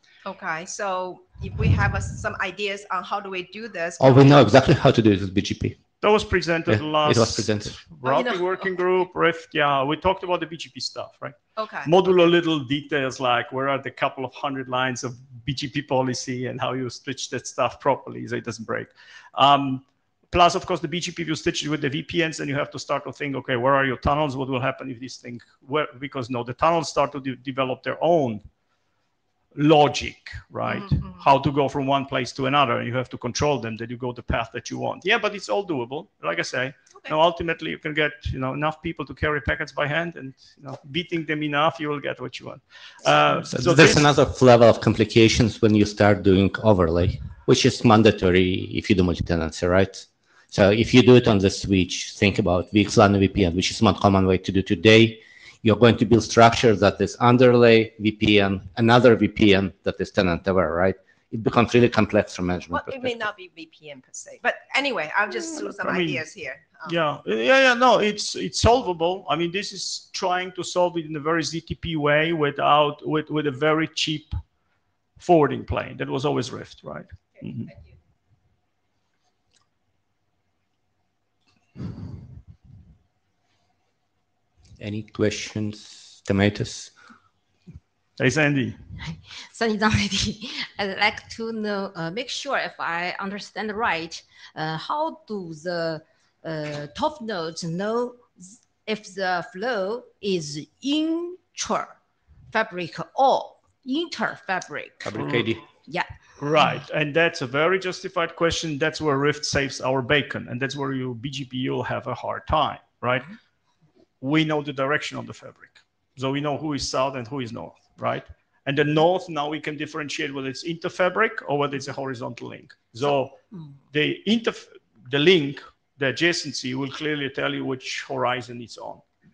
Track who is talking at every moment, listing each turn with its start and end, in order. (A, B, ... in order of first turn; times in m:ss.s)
0:00.2-0:04.5 A
0:04.0-0:05.8 B
0:06.0-0:28.4 C
0:06.7-0:07.8 B
0:08.0-0:08.9 A
0:11.6-0:12.0 A
0:29.6-0:44.1 C
0:30.6-0:31.2 A
0:43.5-1:03.3 B
1:02.7-1:07.0 A
1:05.4-1:06.2 C
1:06.8-1:14.4 C
1:15.2-1:17.7 C
1:17.4-1:18.0 A
1:24.8-1:26.9 B
1:28.2-1:28.8 C
1:29.0-1:42.0 D
1:42.5-1:45.1 D
1:45.0-1:45.6 B
1:45.1-1:45.5 C
1:45.9-1:46.8 D
1:46.4-1:53.3 C
1:54.2-2:03.4 C
2:03.9-2:09.0 C